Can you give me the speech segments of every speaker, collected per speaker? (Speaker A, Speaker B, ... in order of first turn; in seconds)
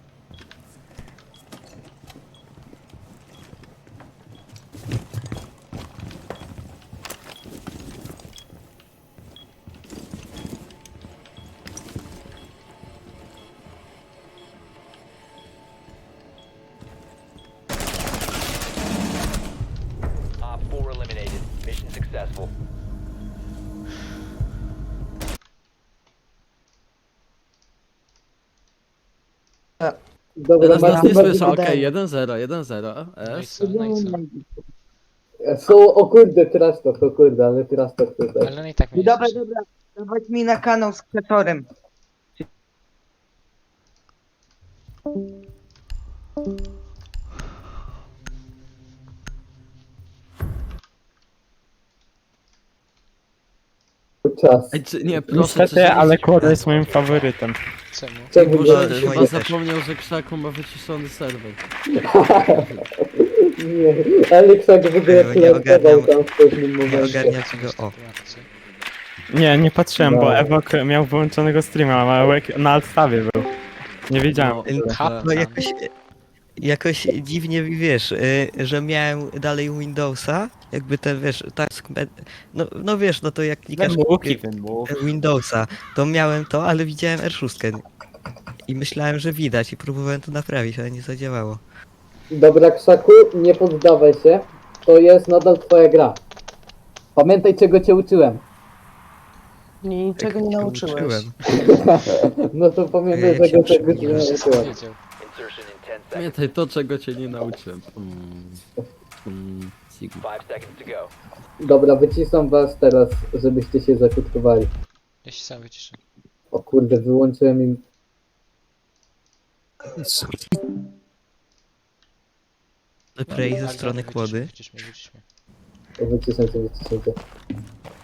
Speaker A: 20.4-22.5, 56.3-57.3, 105.2-106.3, 110.2-111.1
Speaker B: 30.4-31.8, 35.4-38.5, 54.2-54.8, 58.3-59.4, 61.9-62.7, 63.2-67.3, 70.0-70.5, 92.3-96.2, 97.2-98.4, 101.5-104.7, 111.6-114.7, 116.5-117.8, 126.0-127.2
Speaker C: 30.6-33.8, 54.7-56.5, 58.4-61.6, 62.5-62.8, 74.3-75.3, 106.1-108.6, 109.2-110.2
Speaker D: 30.7-31.6, 99.8-101.3
Speaker E: 33.2-34.2, 38.4-39.4, 57.9-58.3, 66.8-68.5, 74.8-75.6, 103.9-105.0, 115.2-116.0, 123.2-125.2
Speaker F: 33.6-34.4, 38.9-41.7
Speaker G: 55.3-57.6, 69.3-73.5, 74.1-74.6, 83.7-85.0
Speaker H: 58.3-59.6, 65.0-66.1, 66.9-68.0, 74.7-75.9, 76.6-87.8, 88.7-91.6, 100.2-101.3, 103.1-104.3, 123.2-124.5